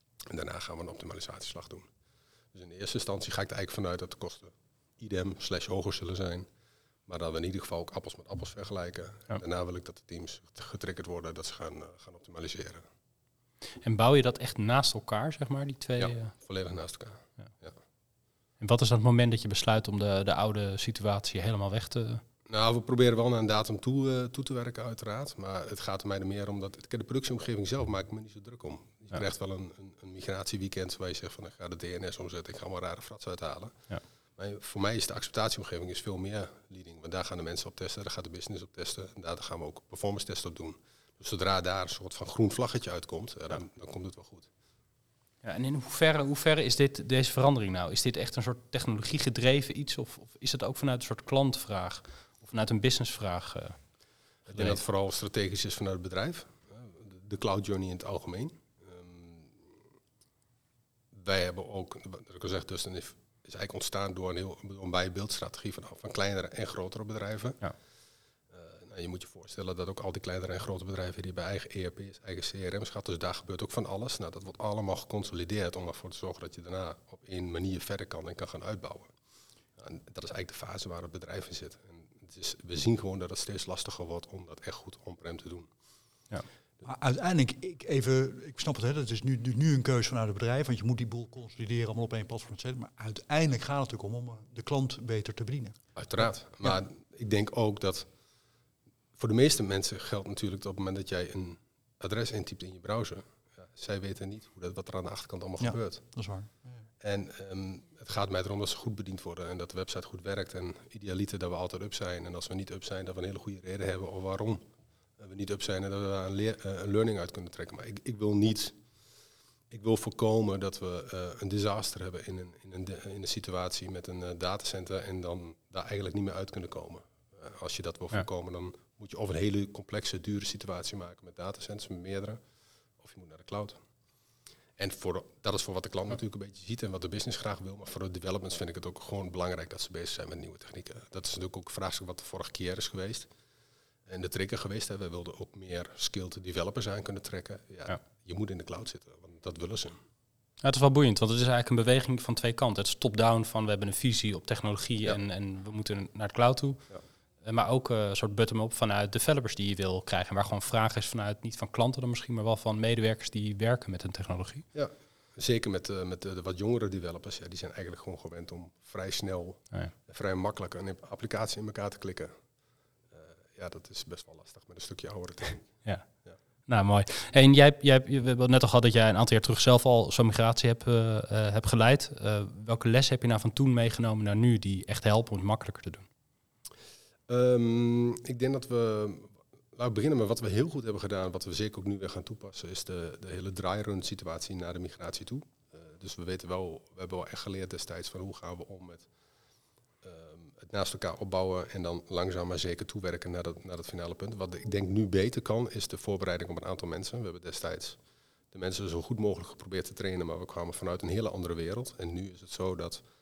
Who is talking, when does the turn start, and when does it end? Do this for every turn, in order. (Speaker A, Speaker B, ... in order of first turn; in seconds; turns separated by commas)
Speaker A: 0.2-1.9, Speaker A: 2.5-6.5, Speaker A: 7.1-12.8, Speaker B: 13.8-16.3, Speaker A: 16.0-17.8, Speaker B: 18.6-22.2, Speaker A: 22.5-44.5, Speaker B: 45.4-53.8, Speaker A: 54.5-59.7, Speaker B: 54.5-54.8, Speaker A: 61.1-67.6, Speaker A: 68.5-79.1, Speaker A: 79.8-85.7, Speaker C: 86.8-95.8, Speaker A: 95.9-98.1, Speaker A: 99.2-106.1, Speaker C: 105.6-106.8, Speaker A: 107.0-114.6, Speaker A: 115.2-118.8, Speaker A: 119.7-132.4, Speaker A: 133.0-133.8, Speaker A: 134.8-143.3, Speaker A: 144.1-150.0, Speaker B: 150.6-156.8, Speaker B: 157.4-164.7, Speaker A: 164.7-172.3, Speaker A: 173.1-176.4, Speaker B: 175.8-186.1, Speaker A: 187.3-199.1, Speaker A: 200.0-208.0, Speaker A: 208.5-213.0